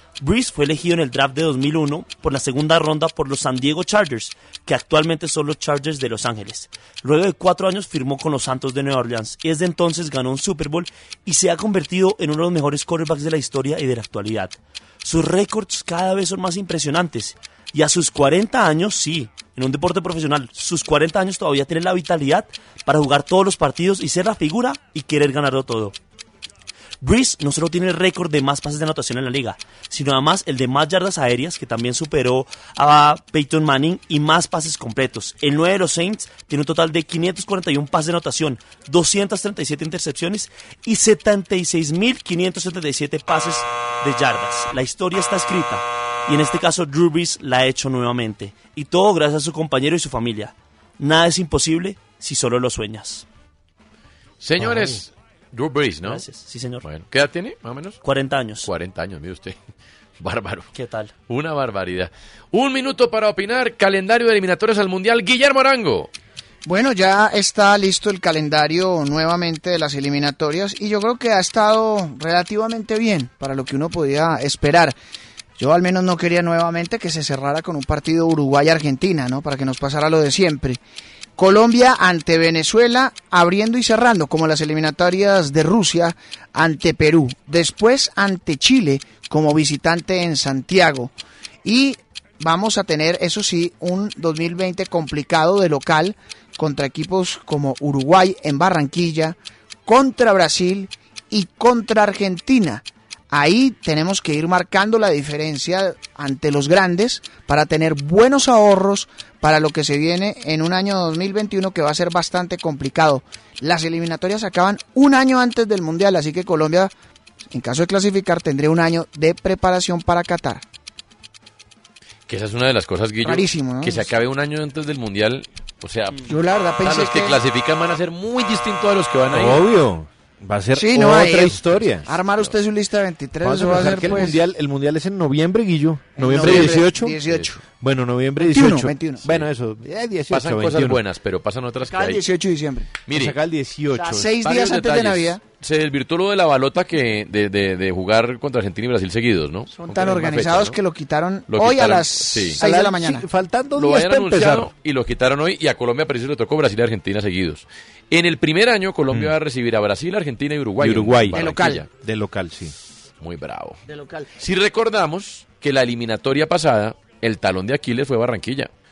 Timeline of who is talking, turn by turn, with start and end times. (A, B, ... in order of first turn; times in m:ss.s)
0:00.2-0:25.9 A
0:27.0-0:53.2 A
0:54.4-0:56.2 B
0:54.6-0:54.9 A
0:56.0-0:56.8 A
0:56.8-0:58.0 B
0:58.0-0:58.7 A
0:58.6-0:59.6 B
1:00.2-1:00.7 B
1:00.7-1:01.1 A
1:01.3-1:06.1 B
1:06.6-1:14.9 C
1:15.6-1:20.8 C
1:21.4-1:56.9 C
1:57.5-2:00.6 C
2:02.3-2:09.6 B
2:03.2-2:04.1 C
2:06.3-2:07.4 C
2:09.3-2:12.1 D
2:10.7-2:14.4 C
2:13.4-2:17.2 D
2:16.2-2:17.6 C
2:16.4-2:17.5 B
2:17.8-2:21.0 D
2:18.4-2:19.3 C
2:20.3-2:22.2 B
2:21.8-2:22.9 C
2:23.0-2:23.4 B
2:23.1-2:24.4 D
2:23.9-2:25.4 C
2:24.4-2:30.8 B
2:29.7-2:33.2 C
2:31.5-2:32.6 B
2:32.6-2:34.7 D
2:33.8-2:41.9 B
2:40.8-2:42.7 D
2:41.3-2:41.8 C
2:43.2-2:43.8 B
2:43.9-2:44.3 C
2:44.4-2:48.7 B